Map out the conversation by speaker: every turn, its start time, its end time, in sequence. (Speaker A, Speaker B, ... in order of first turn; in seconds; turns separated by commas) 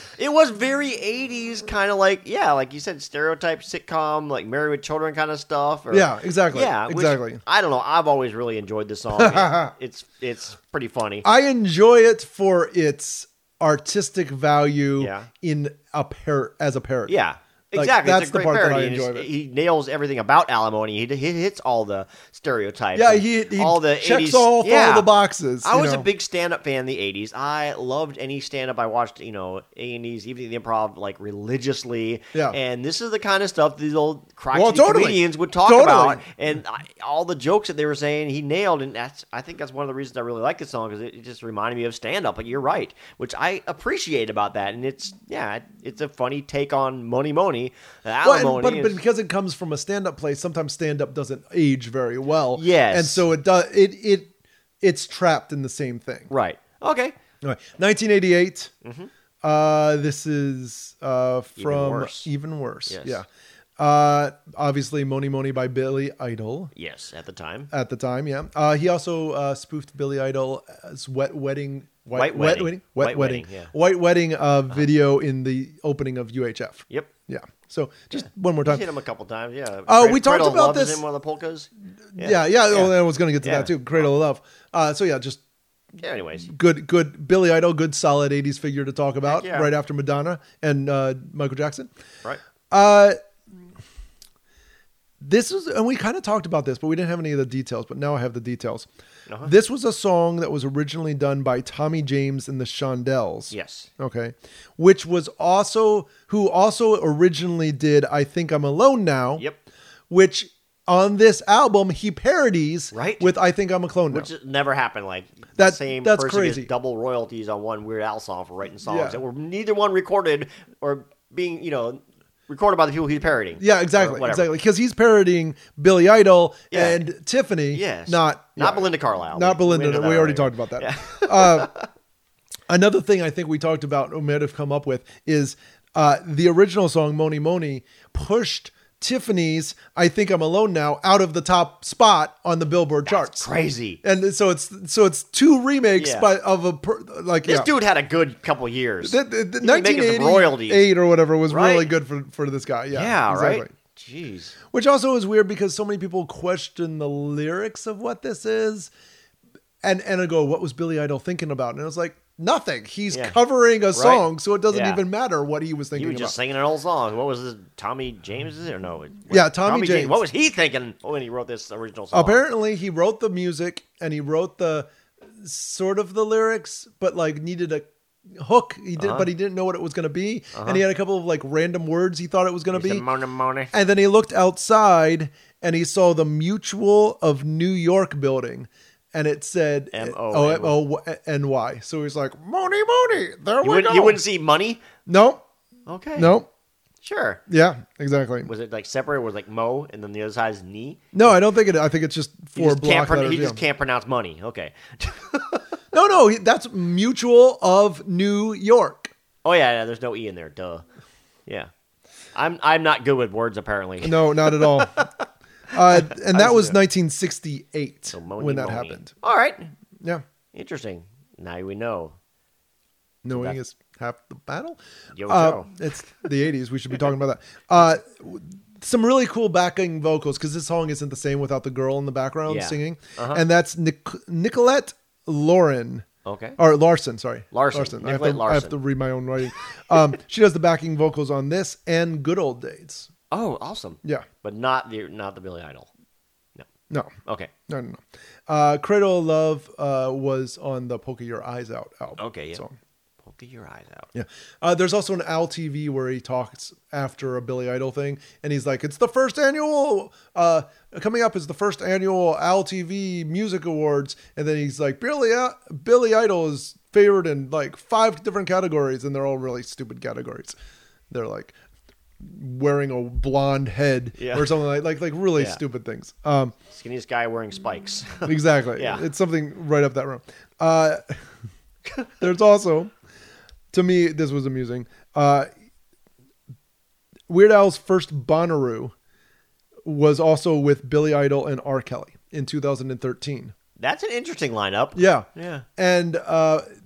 Speaker A: 0.2-11.3, Speaker B: 5.9-7.4, Speaker B: 9.2-9.7, Speaker B: 11.2-17.2, Speaker A: 15.0-15.3, Speaker A: 17.1-49.0, Speaker B: 17.8-19.3, Speaker B: 22.9-26.1, Speaker B: 34.5-36.2, Speaker B: 48.2-54.3, Speaker A: 52.5-53.3, Speaker B: 54.8-56.3, Speaker A: 56.3-57.1, Speaker B: 57.4-58.7, Speaker A: 58.8-59.1, Speaker B: 59.4-63.3, Speaker A: 61.6-62.3, Speaker A: 62.9-63.2, Speaker B: 63.8-66.7, Speaker A: 66.8-67.7, Speaker B: 67.7-78.9, Speaker A: 72.1-73.7, Speaker A: 78.1-84.1, Speaker B: 79.9-81.0, Speaker B: 82.2-85.4, Speaker A: 86.0-86.5, Speaker B: 86.4-91.9, Speaker A: 89.2-89.7, Speaker B: 92.7-93.2, Speaker B: 95.2-98.9, Speaker A: 99.3-99.5, Speaker B: 99.4-109.5, Speaker A: 103.5-103.9, Speaker B: 110.1-114.3, Speaker A: 112.9-113.3, Speaker A: 114.1-124.5, Speaker B: 115.6-116.7, Speaker B: 118.8-119.2, Speaker B: 123.6-131.7, Speaker A: 126.7-127.0, Speaker A: 127.7-131.9, Speaker B: 132.7-143.5, Speaker A: 143.1-144.0, Speaker B: 144.0-147.7, Speaker A: 146.0-146.3, Speaker A: 147.4-150.9, Speaker B: 149.0-153.7, Speaker A: 151.5-151.9, Speaker A: 152.9-154.6, Speaker B: 154.7-158.9, Speaker B: 159.8-166.4, Speaker A: 163.1-163.4, Speaker A: 163.9-165.0, Speaker A: 165.9-172.4, Speaker B: 169.3-170.2, Speaker B: 172.1-183.1, Speaker A: 179.0-179.3, Speaker A: 180.6-180.8, Speaker A: 182.7-183.7, Speaker B: 183.7-194.2, Speaker A: 189.9-190.8, Speaker A: 193.6-194.8, Speaker B: 195.1-195.4, Speaker A: 195.9-196.4, Speaker B: 196.2-196.5, Speaker A: 197.0-197.4, Speaker B: 197.5-198.5, Speaker A: 198.4-201.3, Speaker B: 201.1-203.6, Speaker A: 202.6-205.7, Speaker B: 205.9-209.1, Speaker A: 209.4-210.8, Speaker A: 212.3-215.1, Speaker B: 214.0-215.0, Speaker B: 215.7-219.1, Speaker A: 215.9-216.8, Speaker A: 218.1-219.7, Speaker A: 220.5-222.2, Speaker B: 223.2-236.1, Speaker A: 223.3-223.6, Speaker A: 225.1-225.8, Speaker A: 232.5-233.4, Speaker A: 236.2-236.6, Speaker B: 236.6-243.1, Speaker A: 237.5-238.8, Speaker A: 243.3-245.9, Speaker A: 247.2-247.5, Speaker B: 247.7-252.8, Speaker A: 252.2-252.6, Speaker A: 253.2-254.1, Speaker B: 254.1-270.6, Speaker B: 271.1-271.6, Speaker B: 272.2-276.6, Speaker A: 274.2-274.6, Speaker A: 275.4-275.6, Speaker A: 276.7-279.1, Speaker B: 278.2-281.2, Speaker B: 282.2-282.9, Speaker B: 283.7-285.5, Speaker B: 287.3-288.9, Speaker B: 289.9-293.5, Speaker A: 293.8-295.7, Speaker B: 295.0-296.6